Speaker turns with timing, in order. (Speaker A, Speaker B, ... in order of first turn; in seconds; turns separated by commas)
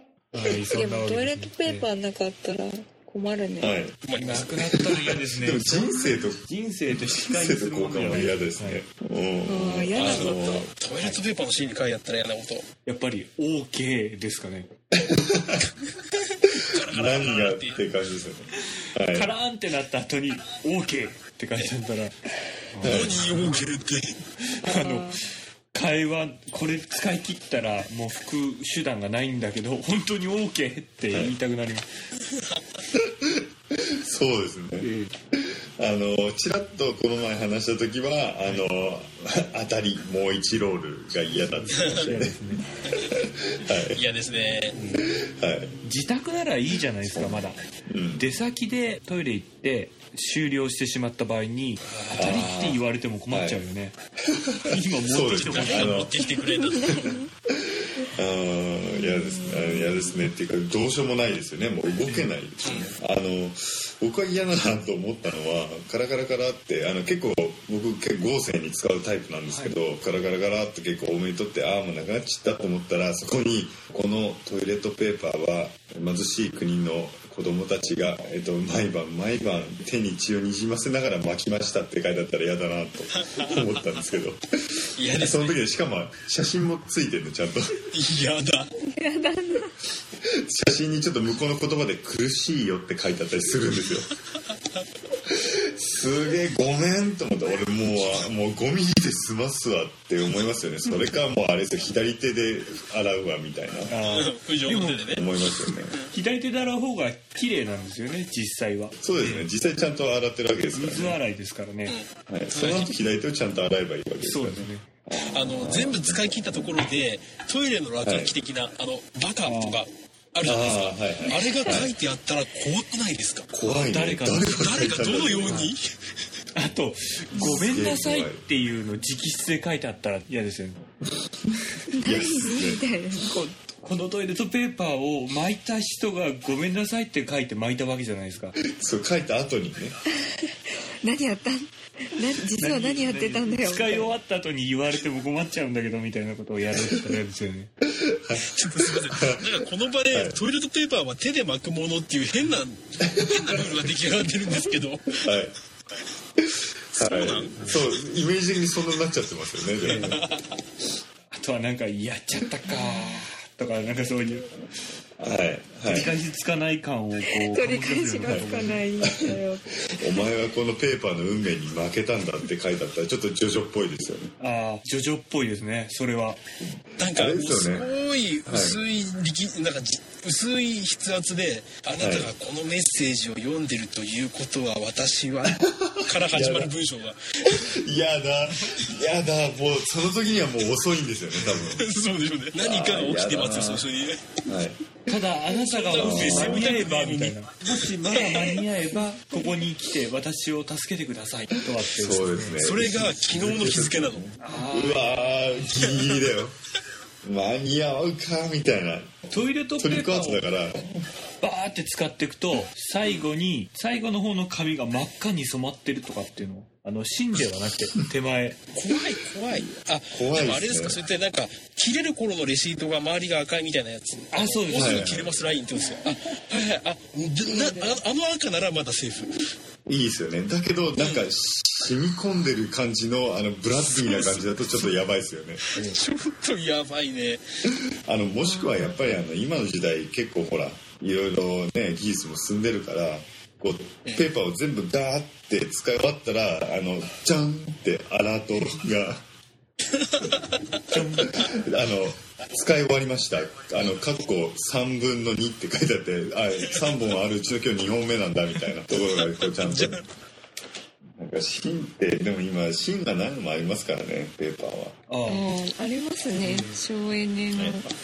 Speaker A: 0.3-1.9, Speaker B: 0.7-3.8, Speaker C: 3.6-10.7, Speaker D: 4.0-4.8, Speaker A: 4.2-8.8, Speaker B: 9.4-10.5, Speaker D: 9.9-12.7, Speaker A: 12.8-14.7, Speaker C: 14.9-15.7, Speaker C: 16.5-19.3, Speaker D: 16.6-17.8, Speaker A: 19.1-22.2, Speaker A: 22.7-23.3, Speaker C: 22.8-23.3, Speaker D: 22.8-24.2, Speaker A: 24.6-25.2, Speaker B: 24.6-25.2, Speaker A: 25.7-31.9, Speaker C: 31.1-31.4, Speaker C: 32.9-42.4, Speaker A: 34.8-35.1, Speaker A: 41.4-42.6, Speaker C: 42.9-44.0, Speaker D: 43.7-44.8, Speaker A: 44.7-45.0, Speaker C: 45.0-45.8, Speaker A: 45.8-47.6, Speaker C: 47.0-48.2, Speaker A: 48.1-54.0, Speaker D: 51.9-52.5, Speaker C: 52.1-53.6, Speaker C: 54.3-56.2, Speaker A: 54.7-56.0, Speaker D: 55.3-57.0, Speaker B: 56.5-57.3, Speaker C: 56.9-87.8, Speaker B: 58.9-60.0, Speaker A: 62.0-62.3, Speaker D: 62.6-62.9, Speaker A: 69.5-69.8, Speaker D: 83.3-83.7, Speaker D: 85.0-85.6, Speaker D: 87.9-88.7, Speaker B: 88.8-89.8, Speaker C: 90.2-94.2, Speaker C: 95.2-103.9, Speaker A: 103.9-105.1, Speaker D: 104.0-106.1, Speaker C: 105.1-106.0, Speaker A: 106.1-109.5, Speaker C: 109.0-111.2, Speaker A: 110.7-112.0, Speaker D: 111.9-112.9, Speaker C: 112.3-116.3, Speaker A: 112.5-112.9, Speaker A: 114.2-114.9, Speaker D: 115.3-123.5, Speaker C: 118.0-118.3, Speaker A: 119.4-119.8, Speaker C: 120.4-121.9, Speaker C: 123.5-125.7, Speaker A: 123.6-124.8, Speaker D: 124.5-125.8, Speaker A: 125.4-125.7, Speaker A: 126.5-130.8, Speaker C: 127.3-128.4, Speaker C: 131.3-132.8, Speaker B: 131.9-133.6, Speaker A: 133.8-138.6, Speaker C: 138.7-140.0, Speaker B: 140.2-144.2, Speaker A: 142.6-147.7, Speaker C: 147.9-149.5, Speaker D: 148.4-155.3, Speaker C: 150.1-150.4, Speaker C: 153.0-153.9, Speaker C: 155.1-155.6, Speaker C: 156.4-160.2, Speaker D: 157.0-157.8, Speaker A: 159.8-160.2, Speaker D: 159.8-160.4, Speaker A: 161.3-164.6, Speaker C: 165.2-166.1, Speaker A: 165.8-168.8, Speaker B: 167.2-169.7, Speaker C: 168.2-174.3, Speaker A: 174.4-176.4, Speaker D: 177.0-187.7, Speaker C: 177.1-177.9, Speaker C: 178.4-178.8, Speaker C: 182.0-182.3, Speaker C: 185.5-186.7, Speaker C: 187.4-191.8, Speaker D: 191.4-194.4, Speaker C: 192.6-193.8, Speaker C: 194.4-194.9, Speaker A: 195.1-202.6, Speaker D: 195.6-197.5, Speaker C: 196.0-196.8, Speaker D: 198.1-198.6, Speaker C: 201.8-206.6, Speaker D: 202.6-204.2, Speaker A: 204.4-205.7, Speaker D: 205.8-206.1, Speaker C: 207.2-209.2, Speaker A: 209.3-210.4, Speaker C: 209.8-211.0, Speaker A: 211.4-218.6, Speaker D: 218.7-229.3, Speaker C: 219.5-221.0, Speaker A: 224.3-225.1, Speaker C: 224.7-225.4, Speaker C: 229.8-235.6, Speaker D: 230.9-231.2, Speaker D: 233.8-235.0, Speaker D: 235.7-237.4, Speaker C: 237.7-249.2, Speaker D: 249.9-250.6, Speaker C: 250.3-260.0, Speaker A: 250.9-251.4, Speaker D: 259.1-260.0, Speaker C: 261.2-265.0, Speaker A: 265.1-265.5, Speaker B: 265.3-267.9, Speaker A: 266.4-266.8, Speaker C: 267.6-267.8